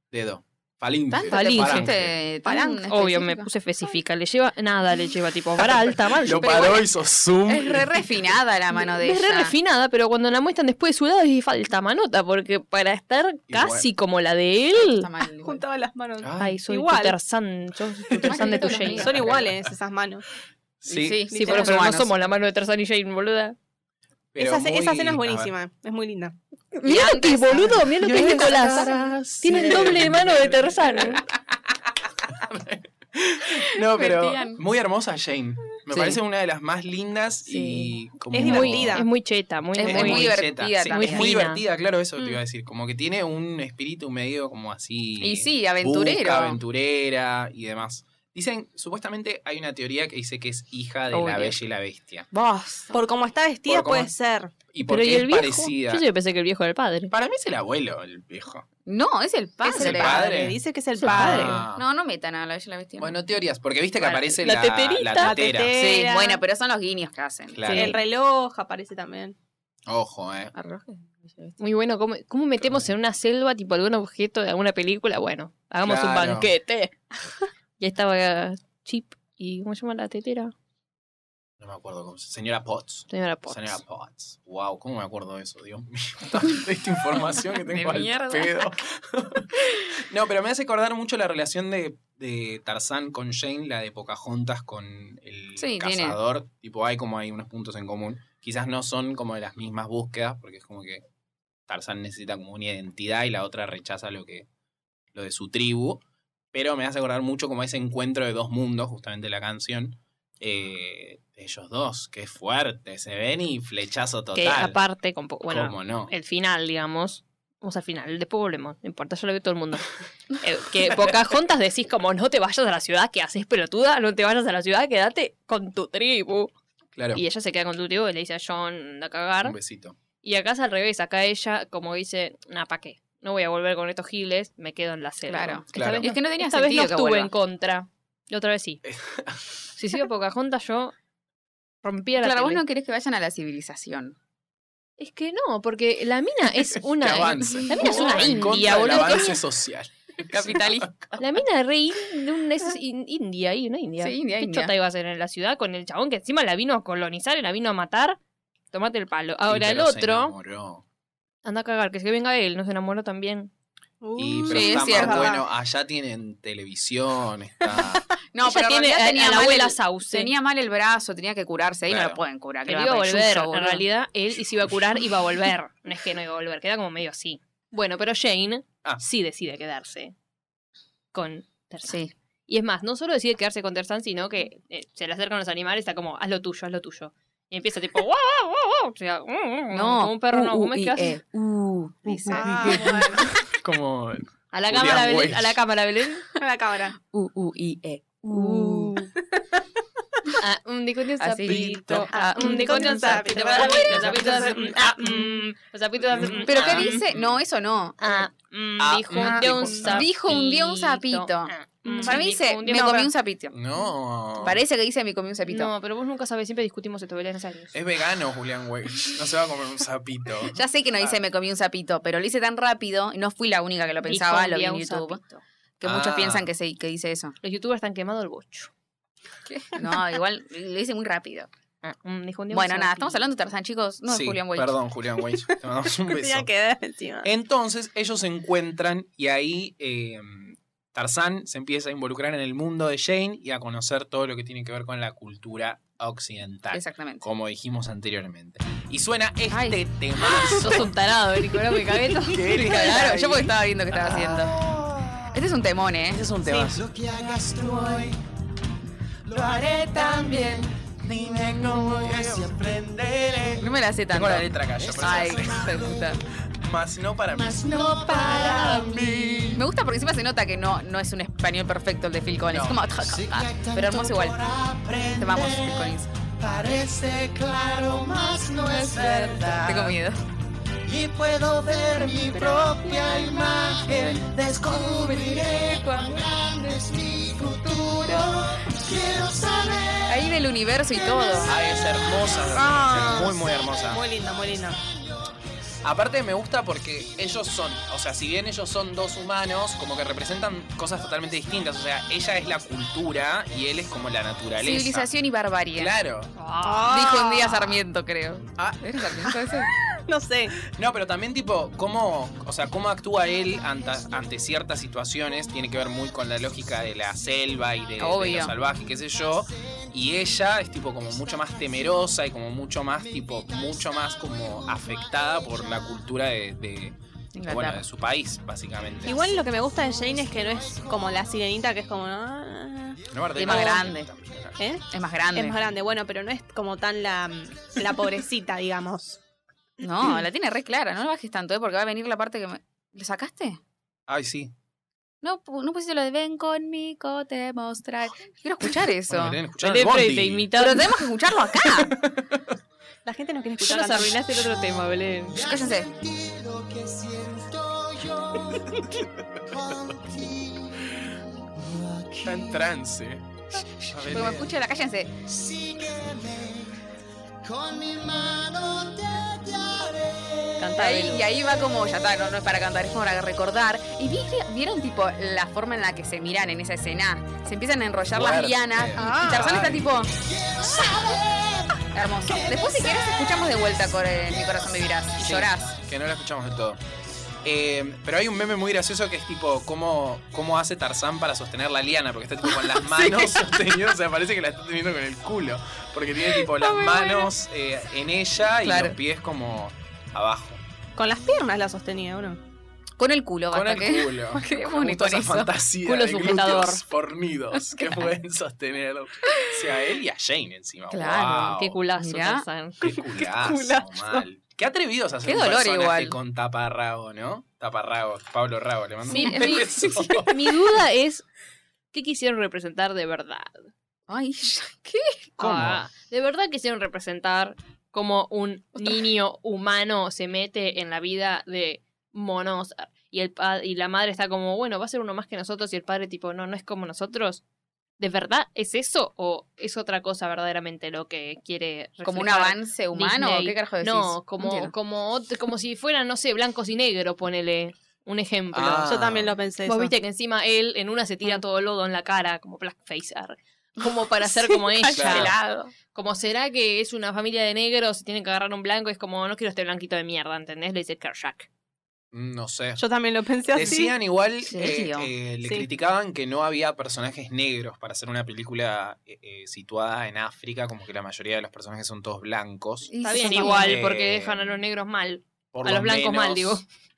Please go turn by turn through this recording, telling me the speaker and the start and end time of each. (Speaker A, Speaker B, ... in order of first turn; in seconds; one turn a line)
Speaker A: 0.1-2.1
Speaker B: 1.1-3.5
Speaker C: 1.3-1.9
Speaker C: 2.4-6.8
Speaker A: 5.6-8.1
Speaker B: 6.3-6.9
Speaker B: 7.5-9.5
Speaker C: 8.7-15.1
Speaker A: 13.5-13.9
Speaker B: 14.7-15.6
Speaker D: 15.4-17.1
Speaker A: 16.2-16.6
Speaker C: 16.4-19.1
Speaker B: 18.3-19.3
Speaker D: 18.5-20.2
Speaker A: 19.1-19.7
Speaker A: 20.8-21.2
Speaker B: 20.9-22.1
Speaker D: 21.3-21.8
Speaker C: 21.3-23.6
Speaker A: 24.3-25.5
Speaker D: 24.4-26.4
Speaker C: 26.8-31.2
Speaker B: 26.8-27.8
Speaker A: 27.7-31.1
Speaker A: 32.2-39.0
Speaker B: 33.9-34.6
Speaker B: 37.5-38.0
Speaker D: 38.3-39.1
Speaker C: 38.4-41.6
Speaker B: 39.8-41.3
Speaker D: 39.8-40.2
Speaker A: 39.9-52.3
Speaker B: 45.2-46.6
Speaker C: 51.1-51.5
Speaker B: 52.3-52.9
Speaker D: 52.9-54.5
Speaker A: 53.6-54.1
Speaker A: 54.7-56.0
Speaker C: 54.9-57.1
Speaker A: 57.1-58.6
Speaker B: 58.9-60.2
Speaker D: 59.6-61.6
Speaker A: 59.8-61.8
Speaker C: 61.0-61.6
Speaker B: 61.2-63.2
Speaker A: 63.0-65.8
Speaker C: 64.0-65.4
Speaker D: 65.2-66.4
Speaker B: 65.7-67.9
Speaker A: 67.5-68.0
Speaker D: 67.7-69.3
Speaker A: 69.9-70.5
Speaker B: 70.5-71.5
Speaker C: 71.6-77.0
Speaker A: 75.8-76.5
Speaker C: 77.8-80.5
Speaker A: 81.6-101.0
Speaker C: 83.1-83.8
Speaker B: 87.7-88.7
Speaker B: 95.6-96.2
Speaker A: 101.7-104.5
Speaker A: 105.1-106.0
Speaker A: 106.5-114.8
Speaker C: 114.3-126.5
Speaker A: 115.5-116.1
Speaker A: 127.0-127.2
Speaker C: 127.1-129.6
Speaker A: 129.4-130.0
Speaker C: 130.2-138.8
Speaker B: 135.3-137.3
Speaker A: 135.7-136.1
Speaker A: 138.8-139.6
Speaker C: 139.8-140.9
Speaker C: 141.8-142.6
Speaker B: 142.2-144.1
Speaker C: 145.0-149.4
Speaker A: 146.9-151.2
Speaker B: 147.6-149.2
Speaker B: 150.3-151.2
Speaker C: 151.2-158.2
Speaker B: 154.0-154.7
Speaker C: 158.7-160.3
Speaker A: 159.5-160.8
Speaker C: 161.4-163.5
Speaker D: 164.0-165.4
Speaker A: 164.2-168.0
Speaker B: 164.5-165.4
Speaker B: 168.3-173.8
Speaker C: 168.4-170.3
Speaker A: 171.9-172.2
Speaker C: 172.7-180.1
Speaker C: 181.1-191.2
Speaker B: 189.7-193.3
Speaker C: 192.1-192.8
Speaker D: 192.3-193.3
Speaker A: 193.3-195.6
Speaker C: 194.5-196.2
Speaker D: 196.4-196.9
Speaker B: 197.1-199.1
Speaker D: 198.3-199.6
Speaker C: 200.4-207.0
Speaker B: 201.2-204.7
Speaker A: 201.4-202.1
Speaker D: 201.9-205.5
Speaker A: 206.1-207.3
Speaker B: 206.4-208.2
Speaker C: 208.0-213.1
Speaker A: 208.8-210.3
Speaker D: 209.2-209.8
Speaker B: 209.8-213.5
Speaker D: 211.8-212.2
Speaker A: 213.5-214.6
Speaker B: 214.4-215.7
Speaker C: 215.5-217.7
Speaker A: 217.7-221.2
Speaker B: 220.5-227.3
Speaker C: 224.0-225.2
Speaker A: 225.8-226.5
Speaker C: 227.4-228.7
Speaker B: 229.4-231.5
Speaker C: 231.8-233.2
Speaker B: 232.5-234.8
Speaker A: 234.1-236.5
Speaker D: 236.0-237.3
Speaker A: 237.2-250.9
Speaker B: 246.7-247.3
Speaker B: 249.5-250.7
Speaker C: 250.3-253.3
Speaker A: 252.2-255.2
Speaker B: 252.5-254.5
Speaker B: 255.3-256.2
Speaker A: 256.1-256.9
Speaker E: 256.5-258.2
Speaker E: 259.2-263.6
Speaker A: 259.3-265.9
Speaker B: 263.6-266.2
Speaker E: 264.8-266.2
Speaker A: 266.6-269.6
Speaker E: 267.3-269.6
Speaker B: 269.5-274.5
Speaker A: 272.5-273.0
Speaker E: 273.1-279.8
Speaker A: 274.7-275.2
Speaker B: 275.2-276.1
Speaker A: 276.4-279.9
Speaker B: 279.4-280.2
Speaker E: 280.9-293.5
Speaker A: 282.6-285.2
Speaker B: 290.1-291.5
Speaker A: 291.4-294.0
Speaker D: 292.5-293.4
Speaker D: 293.9-294.8
Speaker E: 294.6-294.9
Speaker A: 295.8-305.1
Speaker B: 304.6-305.9
Speaker A: 305.8-306.3
Speaker C: 306.4-307.2
Speaker D: 306.6-307.7
Speaker B: 306.8-309.7
Speaker A: 308.6-308.8
Speaker D: 309.9-310.5
Speaker A: 310.7-329.2
Speaker B: 318.0-318.5
Speaker E: 321.2-321.9
Speaker E: 323.2-325.9
Speaker B: 327.3-327.8
Speaker D: 329.0-333.0
Speaker A: 333.1-334.6
Speaker B: 333.4-334.1
Speaker D: 334.6-339.2
Speaker B: 334.9-335.6
Speaker B: 339.8-343.6
Speaker A: 344.1-344.5
Speaker B: 345.2-349.4
Speaker A: 349.1-350.5
Speaker C: 349.6-351.0
Speaker B: 350.6-351.9
Speaker A: 351.5-352.5
Speaker D: 353.1-354.4
Speaker C: 353.6-355.4
Speaker E: 355.3-362.7
Speaker B: 355.4-355.9
Speaker A: 362.2-363.3
Speaker A: 363.8-364.5
Speaker B: 364.0-365.1
Speaker E: 365.2-366.8
Speaker E: 367.4-370.7
Speaker C: 370.6-371.3
Speaker B: 370.8-380.1
Speaker A: 378.1-379.9
Speaker D: 378.9-379.6
Speaker E: 380.1-385.4
Speaker B: 381.9-385.8
Speaker A: 385.2-386.8
Speaker A: 387.4-400.6
Speaker B: 392.6-393.6
Speaker B: 396.6-397.3
Speaker B: 398.6-399.0
Speaker D: 401.0-402.4
Speaker B: 403.0-405.5
Speaker A: 403.5-411.8
Speaker C: 405.8-406.8
Speaker B: 410.9-412.4
Speaker C: 411.5-413.2
Speaker A: 412.8-420.3
Speaker D: 413.2-414.2
Speaker B: 415.2-416.2
Speaker B: 419.1-420.3
Speaker C: 419.1-419.7
Speaker C: 420.2-421.2
Speaker C: 421.9-423.6
Speaker B: 424.1-425.3
Speaker A: 425.4-425.8
Speaker C: 425.4-437.4
Speaker B: 428.8-429.0
Speaker C: 438.0-449.0
Speaker B: 442.1-444.7
Speaker A: 448.5-449.3
Speaker D: 448.9-449.9
Speaker C: 449.6-455.4
Speaker D: 454.4-455.7
Speaker A: 454.9-455.3
Speaker C: 455.9-461.5
Speaker A: 462.1-462.8
Speaker D: 462.8-463.9
Speaker A: 463.5-474.6
Speaker B: 464.4-465.1
Speaker B: 472.9-473.8
Speaker C: 473.0-476.6
Speaker A: 475.5-476.6